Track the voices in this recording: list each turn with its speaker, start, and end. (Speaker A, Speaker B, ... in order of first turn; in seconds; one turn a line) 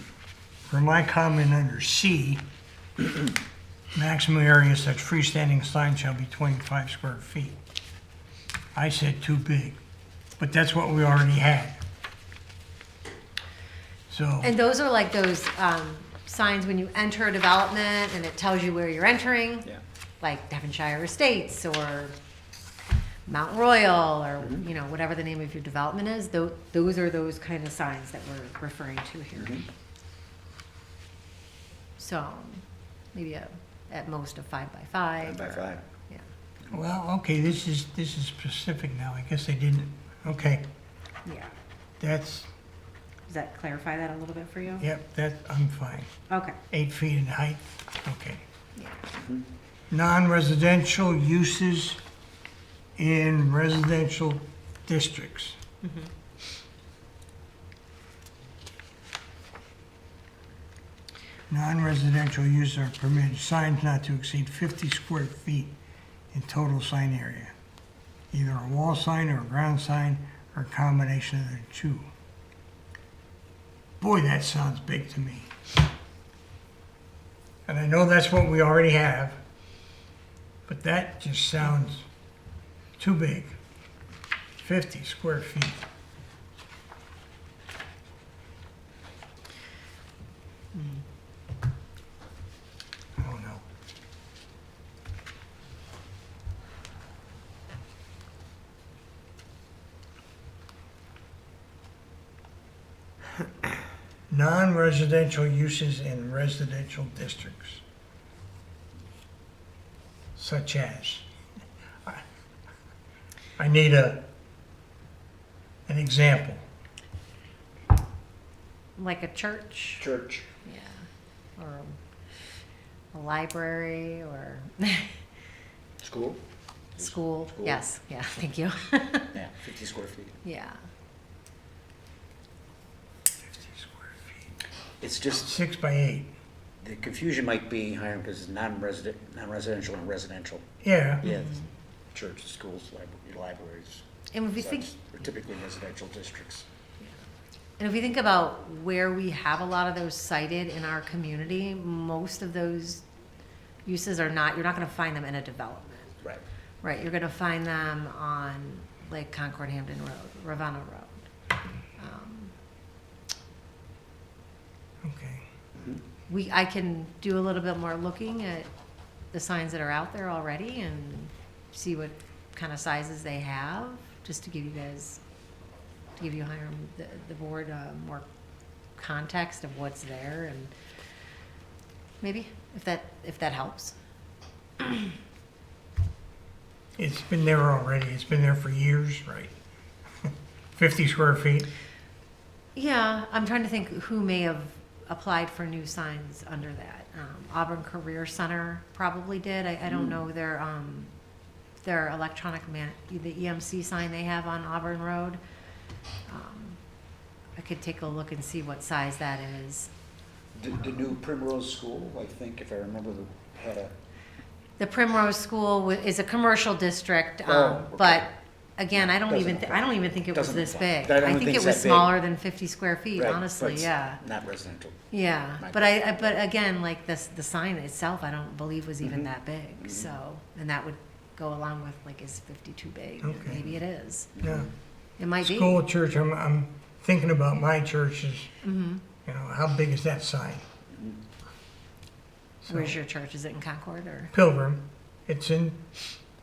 Speaker A: 0.7-2.4
Speaker A: 3.9-7.6
Speaker A: 8.7-9.8
Speaker A: 10.4-11.8
Speaker A: 14.1-14.5
Speaker B: 14.4-19.7
Speaker B: 20.2-22.1
Speaker B: 23.3-29.6
Speaker C: 29.4-29.6
Speaker B: 32.0-36.2
Speaker C: 35.2-35.8
Speaker A: 36.7-40.6
Speaker B: 41.2-41.5
Speaker A: 42.0-42.5
Speaker B: 43.3-44.9
Speaker A: 44.8-46.1
Speaker B: 46.3-46.6
Speaker A: 46.7-48.4
Speaker B: 48.8-49.0
Speaker A: 49.9-52.0
Speaker A: 53.0-55.6
Speaker B: 55.8-56.1
Speaker A: 61.5-65.7
Speaker A: 66.3-67.5
Speaker A: 68.3-72.1
Speaker A: 74.0-75.5
Speaker A: 77.7-79.4
Speaker A: 80.7-82.1
Speaker A: 83.0-83.6
Speaker A: 84.6-85.8
Speaker B: 90.7-91.0
Speaker A: 93.2-93.6
Speaker A: 104.3-107.8
Speaker A: 110.3-111.3
Speaker A: 113.6-114.2
Speaker A: 115.9-116.6
Speaker B: 119.0-120.0
Speaker C: 120.0-120.5
Speaker B: 120.6-121.0
Speaker B: 121.6-122.0
Speaker B: 123.1-125.2
Speaker C: 126.0-126.4
Speaker B: 127.0-129.3
Speaker C: 127.0-127.8
Speaker C: 129.3-130.4
Speaker B: 130.4-130.8
Speaker A: 133.6-134.1
Speaker C: 135.0-135.5
Speaker A: 135.4-136.3
Speaker C: 136.8-140.6
Speaker A: 140.8-141.2
Speaker C: 141.2-141.6
Speaker B: 141.3-141.6
Speaker C: 142.1-144.0
Speaker B: 144.3-144.9
Speaker C: 144.6-146.7
Speaker B: 147.8-153.0
Speaker B: 153.8-156.1
Speaker B: 156.8-161.2
Speaker B: 162.0-162.5
Speaker A: 165.0-165.4
Speaker B: 166.3-168.7
Speaker B: 169.3-175.2
Speaker B: 176.2-178.2
Speaker B: 179.0-180.7
Speaker B: 182.2-183.9
Speaker B: 184.8-185.1
Speaker A: 187.0-189.6
Speaker A: 190.2-191.7
Speaker B: 192.7-201.1
Speaker C: 199.9-200.2
Speaker B: 201.8-205.4
Speaker B: 206.3-206.8
Speaker B: 207.6-209.9
Speaker C: 210.5-213.9
Speaker B: 214.8-224.2
Speaker C: 217.4-218.3
Speaker C: 218.9-222.2
Speaker C: 223.2-225.0
Speaker B: 225.1-234.3
Speaker C: 225.6-226.2
Speaker C: 229.8-230.1
Speaker A: 233.2-233.6
Speaker C: 234.4-234.7
Speaker A: 234.4-234.7
Speaker B: 235.2-235.8
Speaker A: 235.4-238.5
Speaker B: 238.6-239.0
Speaker A: 239.2-240.7
Speaker C: 240.9-241.2
Speaker A: 242.6-242.9
Speaker B: 242.7-244.3
Speaker A: 244.3-245.8